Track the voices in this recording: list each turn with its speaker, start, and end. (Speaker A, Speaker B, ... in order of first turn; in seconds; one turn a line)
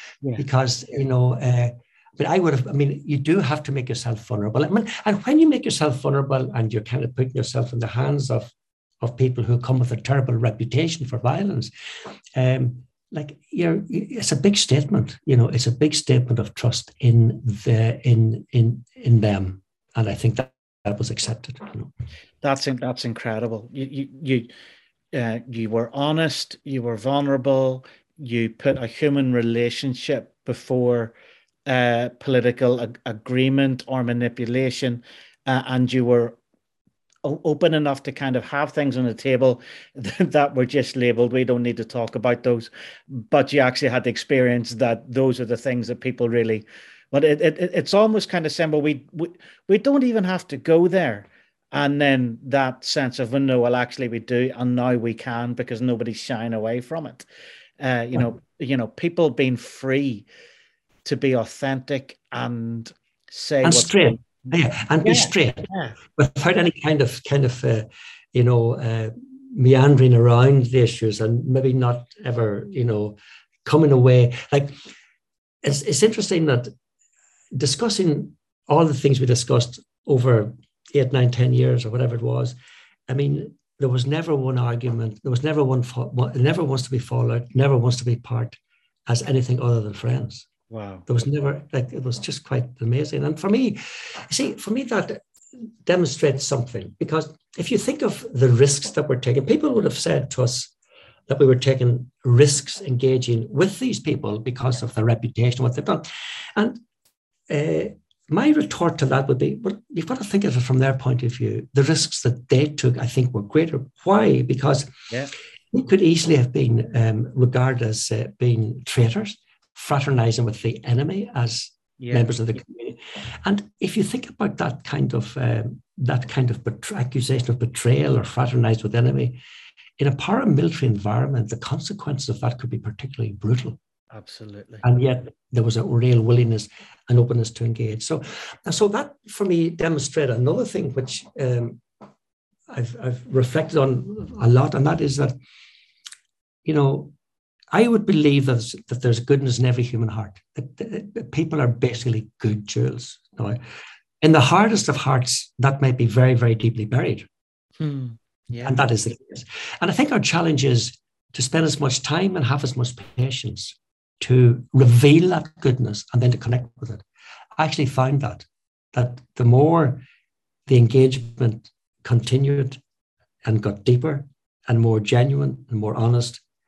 Speaker A: 0.4-11.7
Speaker A: 12.3-21.9
Speaker B: 22.4-24.5
Speaker B: 25.1-31.1
Speaker B: 31.7-36.4
Speaker B: 37.2-57.2
Speaker B: 57.8-60.2
Speaker B: 61.0-64.5
Speaker A: 63.6-74.7
Speaker B: 65.0-66.0
Speaker A: 75.6-76.7
Speaker A: 77.5-82.5
Speaker A: 83.1-90.5
Speaker B: 90.7-91.0
Speaker A: 91.1-95.2
Speaker A: 95.8-100.7
Speaker A: 101.3-106.8
Speaker A: 107.5-114.9
Speaker A: 115.7-129.4
Speaker B: 122.0-122.3
Speaker A: 130.0-133.8
Speaker B: 134.1-134.8
Speaker A: 134.8-141.8
Speaker A: 142.7-145.3
Speaker A: 146.6-147.1
Speaker A: 147.7-153.6
Speaker A: 154.2-157.3
Speaker B: 157.8-158.8
Speaker A: 158.6-167.0
Speaker A: 167.6-170.0
Speaker A: 170.7-172.8
Speaker A: 173.4-176.4